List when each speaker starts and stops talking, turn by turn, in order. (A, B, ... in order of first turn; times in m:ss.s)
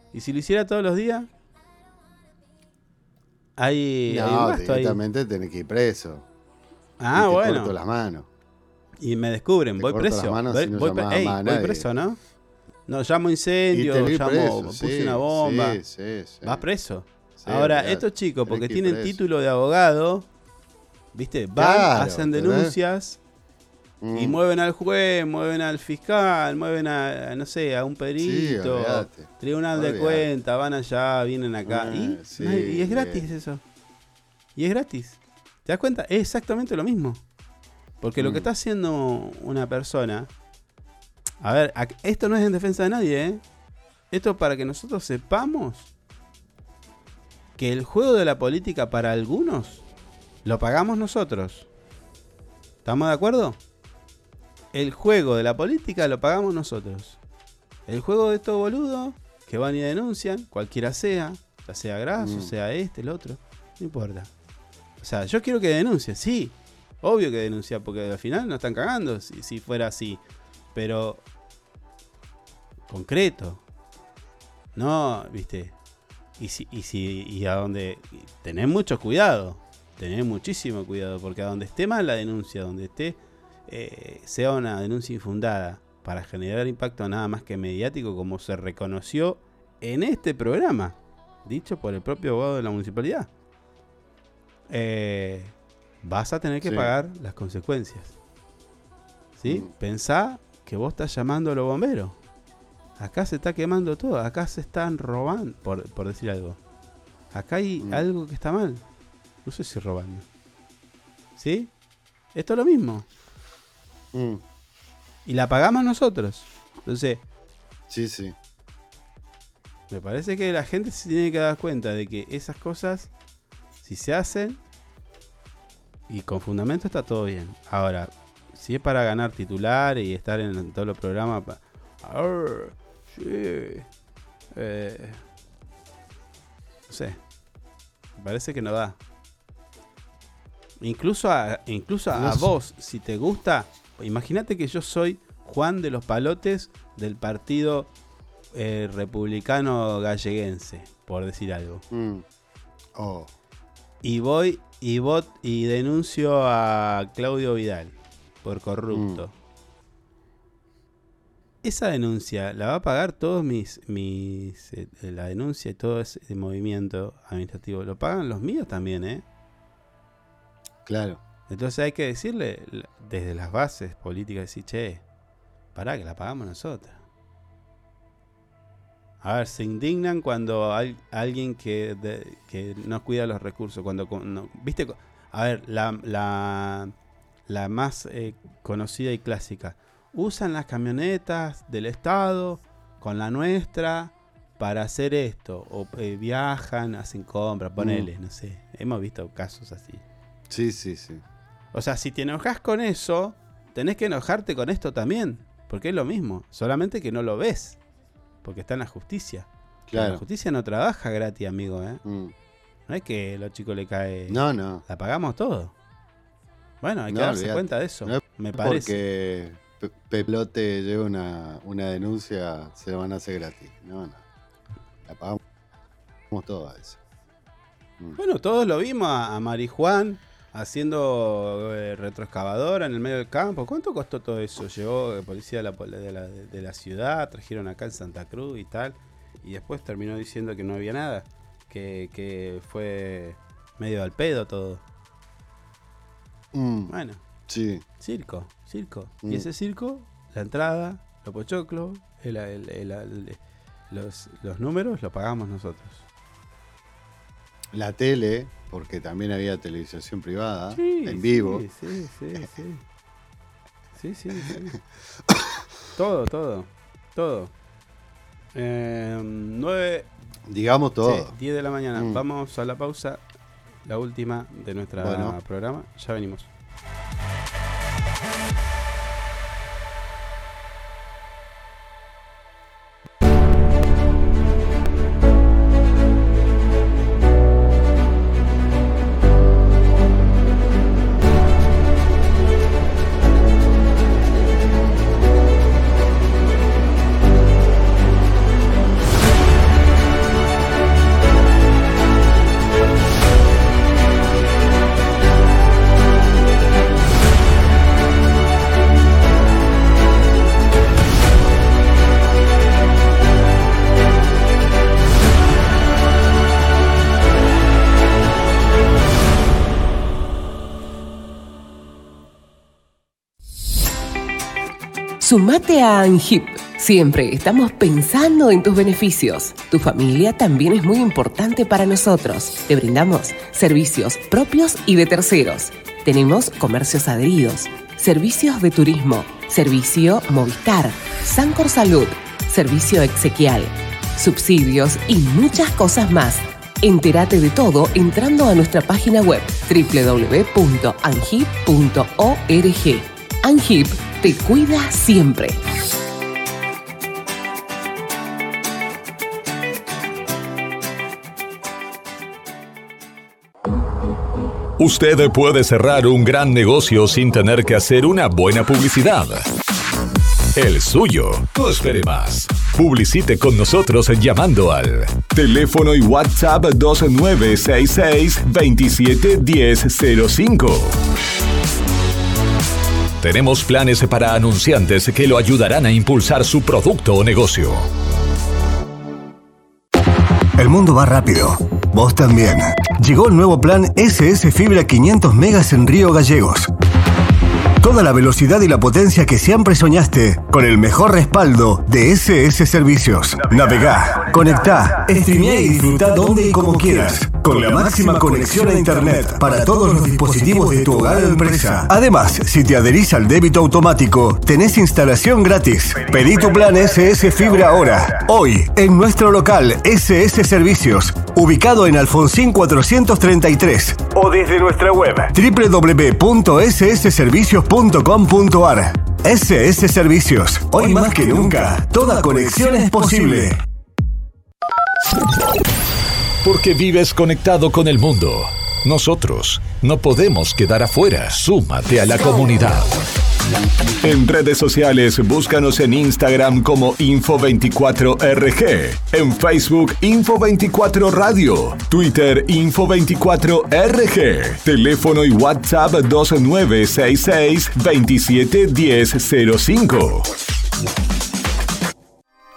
0:00.1-0:01.3 A
0:03.6-0:05.0 A
0:04.1-0:06.3 B
0:07.0-0:07.7 A
0:07.1-0:08.3 B
0:09.0-0:12.2 A
0:09.8-0:11.9 B
0:12.9-0:15.8 A
0:13.7-0:16.6 B
0:16.4-0:20.3 A
0:17.4-0:19.2 B
0:21.1-0:23.2 A
0:21.6-0:22.7 B
0:24.0-0:24.4 B
0:24.1-0:33.6 A
0:28.2-0:30.3 B
0:31.6-0:33.3 B
0:34.6-0:37.2 A
0:38.0-0:40.3 A
0:38.2-0:38.5 B
0:41.4-0:43.4 A
0:44.1-0:45.9 A
0:47.6-0:49.8 A
0:50.4-0:51.7 A
0:52.8-0:53.6 A
0:54.7-0:57.2 A
0:57.9-1:04.3 A
1:02.2-1:02.5 B
1:05.0-1:10.2 A
1:10.7-1:11.2 A
1:12.9-1:13.6 A
1:14.7-1:15.7 A
1:16.4-1:33.3 A
1:34.7-1:38.1 A
1:36.6-1:36.9 B
1:39.4-1:42.2 A
1:43.0-1:46.6 A
1:47.3-1:48.8 A
1:49.4-1:50.2 A
1:51.4-1:51.7 A
1:52.4-1:53.1 A
1:54.1-1:54.4 B
1:55.2-1:57.2 A
1:57.9-1:58.4 B
1:59.9-2:03.1 A
2:03.8-2:04.6 A
2:06.1-2:13.9 A
2:14.5-2:15.2 A
2:16.9-2:17.2 A
2:18.2-2:19.0 A
2:20.8-2:27.9 A
2:22.1-2:22.5 B
2:28.5-2:31.8 A
2:31.9-2:32.2 B
2:33.0-2:33.3 B
2:34.0-2:39.3 A
2:38.9-2:39.2 B
2:41.6-2:49.2 A
2:50.9-2:51.2 B
2:51.5-2:55.0 A
2:55.7-2:57.0 A
2:59.2-3:06.9 A
3:07.5-3:20.0 A
3:17.8-3:18.1 B
3:20.5-3:21.2 B
3:21.7-3:27.8 A
3:28.4-3:32.0 A
3:29.9-3:30.2 B
3:32.0-3:32.3 B
3:32.9-3:35.7 A
3:34.3-3:34.8 B
3:36.8-3:39.0 A
3:37.1-3:44.2 B
3:45.0-3:45.4 B
3:46.3-3:47.0 B
3:48.2-4:04.8 A
4:06.5-4:06.9 B
4:06.9-4:07.2 A
4:07.5-4:07.8 B
4:08.0-4:16.0 A
4:17.7-4:21.6 B
4:20.7-4:22.8 A
4:24.0-4:24.8 A
4:26.0-4:27.5 A
4:28.5-4:30.1 A
4:30.5-4:31.3 B
4:31.0-4:33.2 A
4:32.0-4:32.2 B
4:33.8-4:36.5 A
4:35.0-4:35.4 B
5:25.2-5:55.6 C
6:04.8-6:09.4 D
6:10.6-6:21.0 D
6:23.2-6:27.8 D
6:30.6-6:36.7 E
6:37.8-7:13.6 E
7:16.4-7:22.9 D
7:24.0-7:40.3 D